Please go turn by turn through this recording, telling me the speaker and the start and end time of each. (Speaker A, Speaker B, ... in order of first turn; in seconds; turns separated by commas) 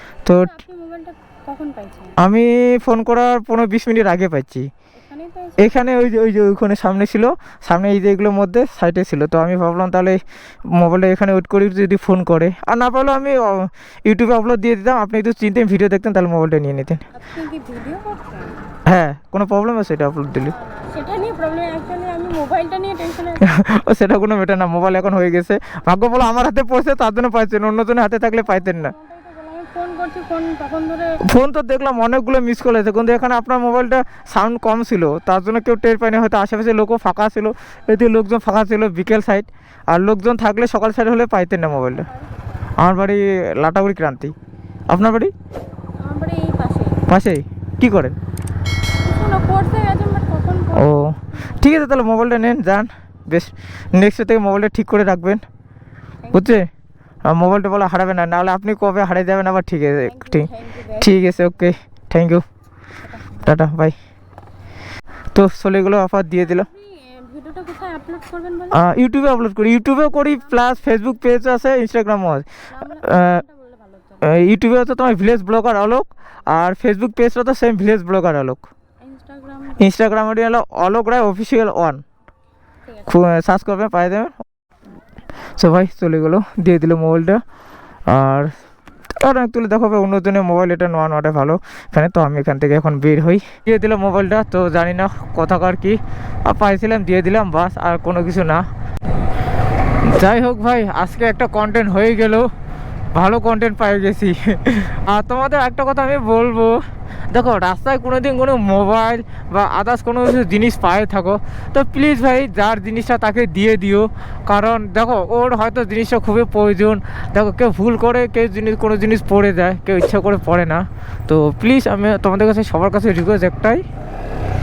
Speaker A: 0.3-0.6, Speaker B: 0.3-2.2, Speaker A: 2.2-4.7, Speaker B: 5.0-5.8, Speaker A: 5.6-10.2, Speaker A: 10.8-17.0, Speaker B: 17.1-18.6, Speaker A: 18.9-20.5, Speaker B: 20.4-23.6, Speaker A: 23.4-28.9, Speaker B: 28.4-31.2, Speaker A: 31.2-42.1, Speaker B: 41.9-42.7, Speaker A: 42.8-44.3, Speaker A: 44.9-45.3, Speaker B: 46.0-47.0, Speaker A: 47.1-48.2, Speaker B: 49.0-51.6, Speaker A: 50.8-55.4, Speaker B: 56.2-56.6, Speaker A: 56.3-56.7, Speaker A: 57.3-60.5, Speaker B: 60.0-61.4, Speaker A: 61.0-62.4, Speaker B: 63.0-63.4, Speaker A: 63.4-64.0, Speaker A: 65.3-66.7, Speaker B: 66.4-68.8, Speaker A: 68.7-72.5, Speaker B: 70.2-70.8, Speaker B: 72.7-74.4, Speaker A: 73.0-73.4, Speaker A: 74.2-78.7, Speaker B: 79.0-79.9, Speaker A: 79.8-82.0, Speaker B: 82.9-83.1, Speaker A: 83.1-84.3, Speaker A: 85.6-87.4, Speaker A: 88.1-88.5, Speaker A: 89.2-98.7, Speaker A: 100.1-102.5, Speaker A: 103.2-106.8, Speaker A: 107.3-123.8